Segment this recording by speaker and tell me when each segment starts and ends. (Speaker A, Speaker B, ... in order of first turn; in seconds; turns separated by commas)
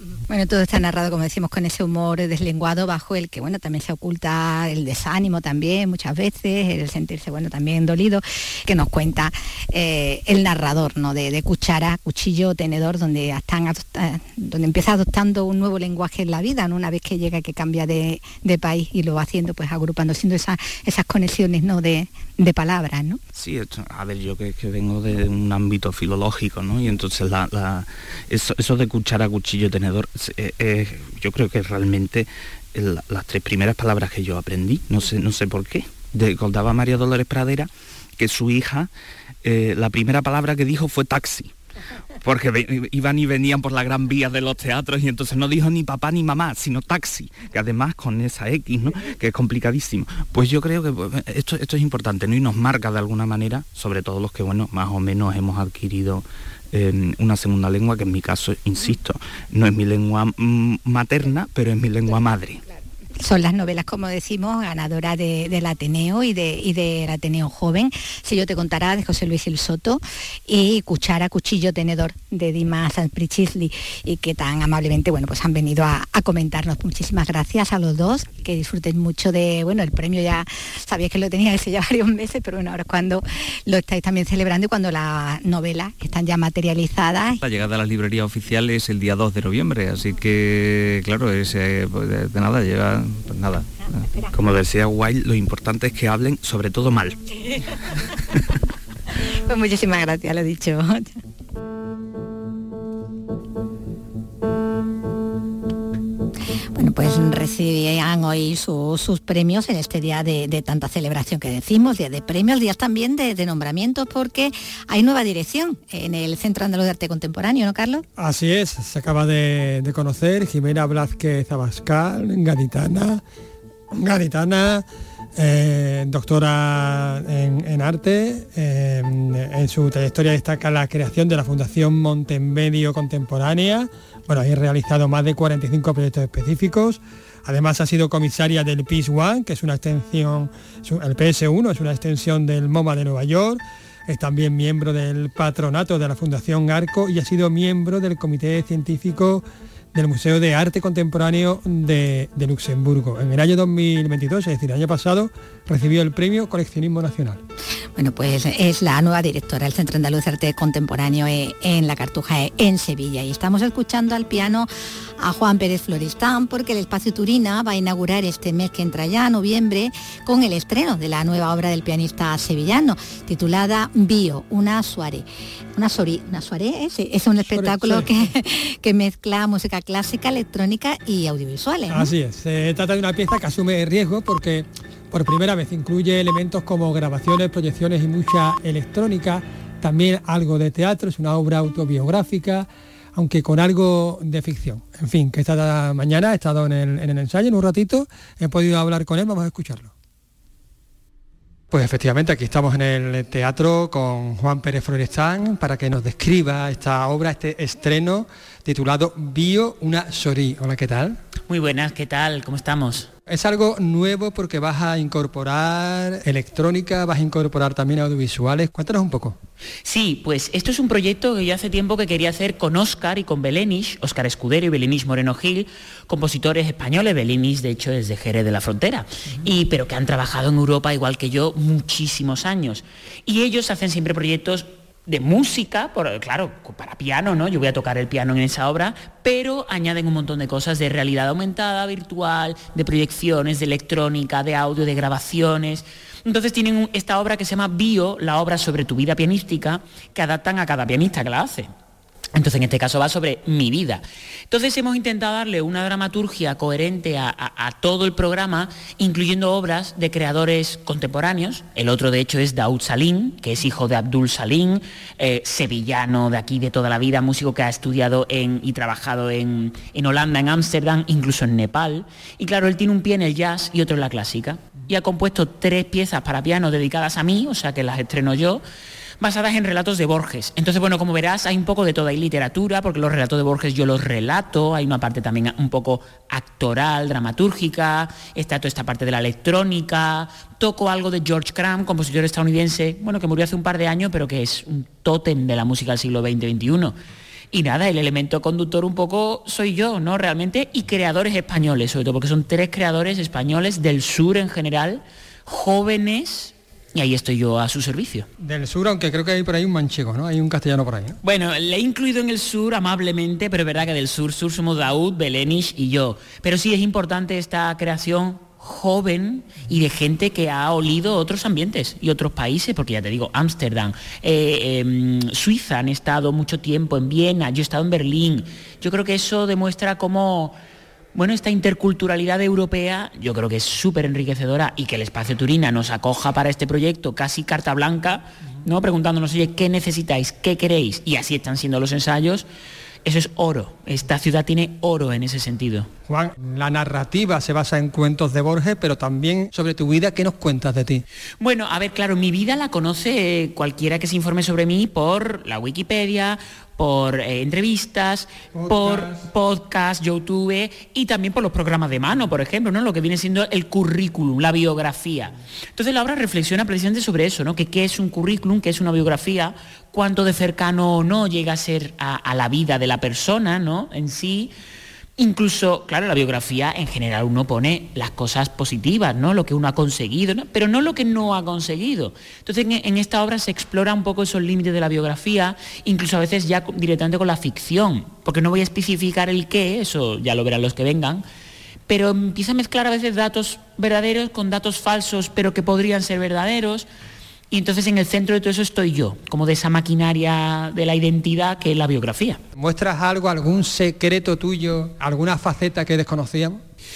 Speaker A: 0.3-23.2, Speaker B: 23.3-38.9, Speaker B: 39.4-41.5, Speaker B: 42.2-62.6, Speaker A: 63.2-87.4, Speaker C: 87.4-94.0, Speaker A: 94.0-94.3, Speaker B: 94.3-97.2, Speaker A: 99.3-101.2, Speaker A: 106.7-118.1, Speaker D: 118.2-123.2, Speaker D: 123.9-157.4, Speaker A: 158.0-182.1, Speaker D: 177.5-178.3, Speaker D: 181.9-199.9, Speaker D: 201.7-211.2, Speaker E: 211.5-213.1, Speaker D: 213.3-219.4, Speaker E: 219.8-251.7, Speaker E: 252.3-278.6, Speaker E: 279.2-297.0, Speaker E: 297.5-308.3, Speaker D: 308.4-311.2, Speaker E: 311.2-330.6, Speaker E: 331.1-342.5, Speaker E: 343.1-345.9, Speaker D: 346.1-351.0, Speaker E: 351.4-374.5, Speaker D: 358.5-359.2, Speaker E: 375.2-391.2, Speaker E: 391.9-396.9, Speaker E: 397.5-402.4, Speaker D: 402.6-406.6